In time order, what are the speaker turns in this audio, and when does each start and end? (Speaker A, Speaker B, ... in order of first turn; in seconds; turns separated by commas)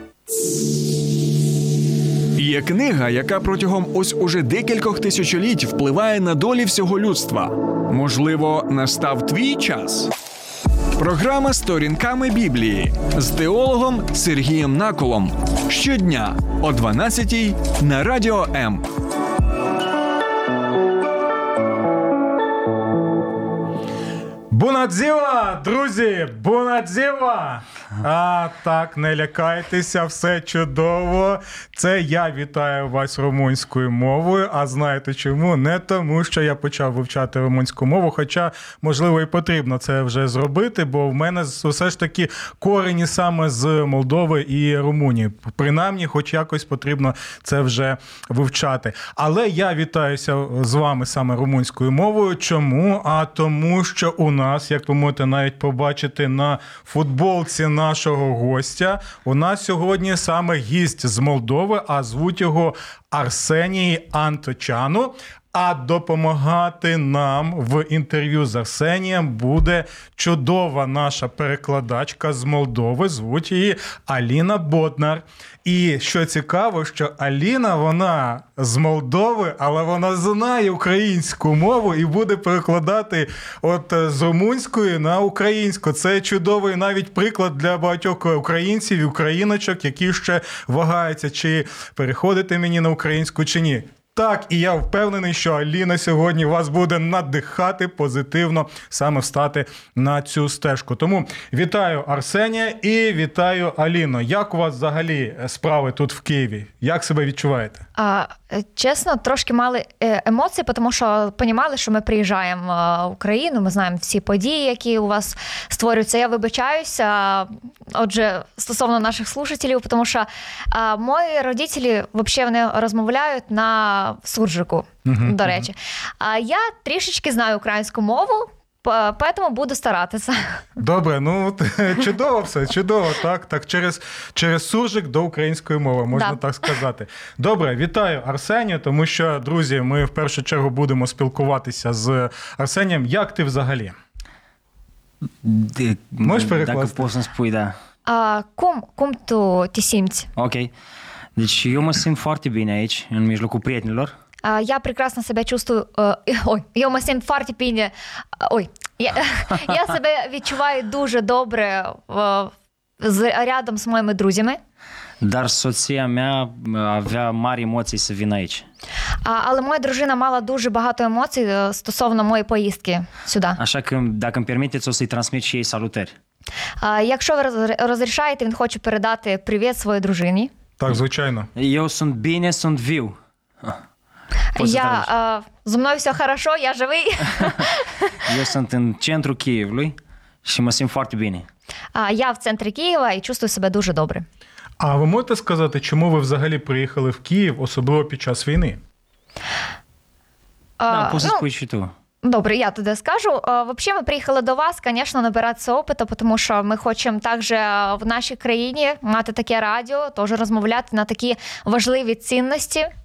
Speaker A: 2.4-10.1, Speaker A: 10.9-18.9, Speaker B: 24.5-107.8, Speaker C: 108.0-130.6, Speaker B: 125.0-125.7, Speaker B: 130.8-143.9, Speaker C: 136.1-136.4, Speaker D: 145.4-147.8, Speaker B: 146.2-147.0, Speaker C: 148.1-150.3, Speaker D: 150.3-150.7, Speaker D: 151.3-154.1, Speaker C: 154.4-164.6, Speaker D: 165.2-168.6, Speaker C: 169.2-173.6, Speaker D: 173.6-176.1, Speaker C: 176.8-180.5, Speaker B: 180.8-181.5, Speaker D: 181.6-183.8, Speaker C: 184.5-187.9, Speaker D: 184.6-185.1, Speaker D: 188.2-191.4, Speaker C: 191.9-194.2, Speaker B: 194.8-198.8, Speaker C: 200.8-201.4, Speaker D: 200.9-201.9, Speaker C: 202.2-212.9